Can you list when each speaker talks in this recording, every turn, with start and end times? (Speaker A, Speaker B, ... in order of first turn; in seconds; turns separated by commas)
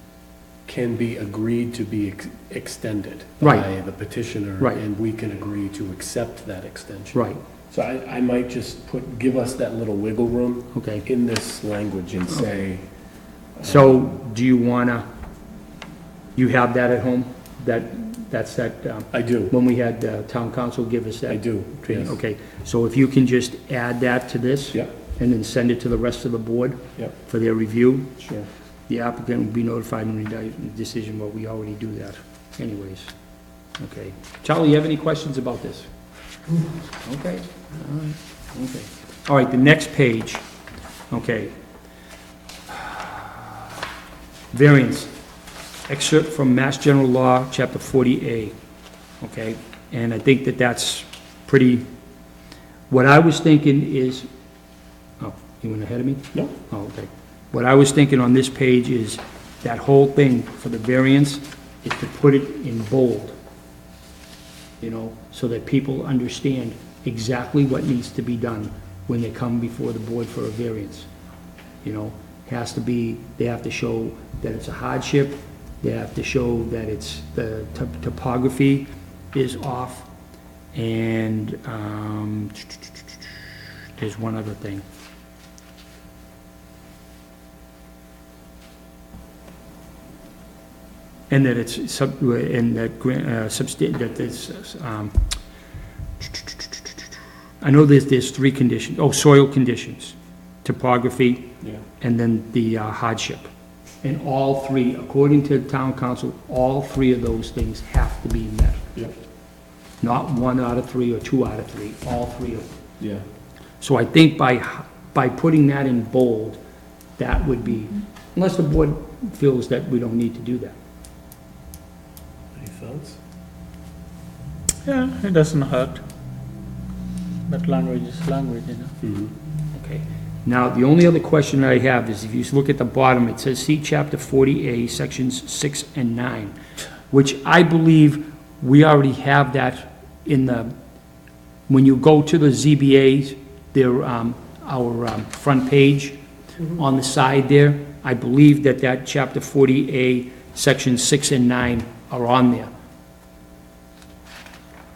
Speaker A: 0.7-12.8, Speaker B: 3.4-3.7, Speaker B: 7.1-7.4, Speaker B: 10.8-11.1, Speaker A: 13.6-14.1, Speaker B: 13.6-15.1, Speaker B: 16.4-28.2, Speaker A: 19.1-19.5, Speaker A: 21.3-22.2, Speaker A: 28.2-28.5, Speaker B: 28.9-33.1, Speaker B: 33.8-35.9, Speaker B: 37.0-40.5, Speaker B: 41.1-41.5, Speaker B: 42.7-43.2, Speaker B: 44.5-45.1, Speaker B: 45.9-48.5, Speaker B: 49.2-51.9, Speaker B: 52.9-54.3, Speaker B: 55.2-63.4, Speaker B: 64.8-71.1, Speaker B: 71.8-80.1, Speaker B: 80.7-83.3, Speaker B: 84.0-84.8, Speaker B: 91.3-95.3, Speaker B: 96.3-96.6, Speaker B: 97.6-103.5, Speaker B: 104.0-108.9, Speaker B: 110.0-112.7, Speaker A: 113.0-113.2, Speaker B: 113.8-116.6, Speaker B: 117.2-120.8, Speaker A: 122.5-123.2, Speaker C: 124.8-126.0, Speaker C: 127.5-128.9, Speaker A: 129.0-129.3, Speaker B: 129.7-136.6, Speaker B: 137.1-140.7, Speaker B: 141.7-146.2, Speaker B: 146.7-152.7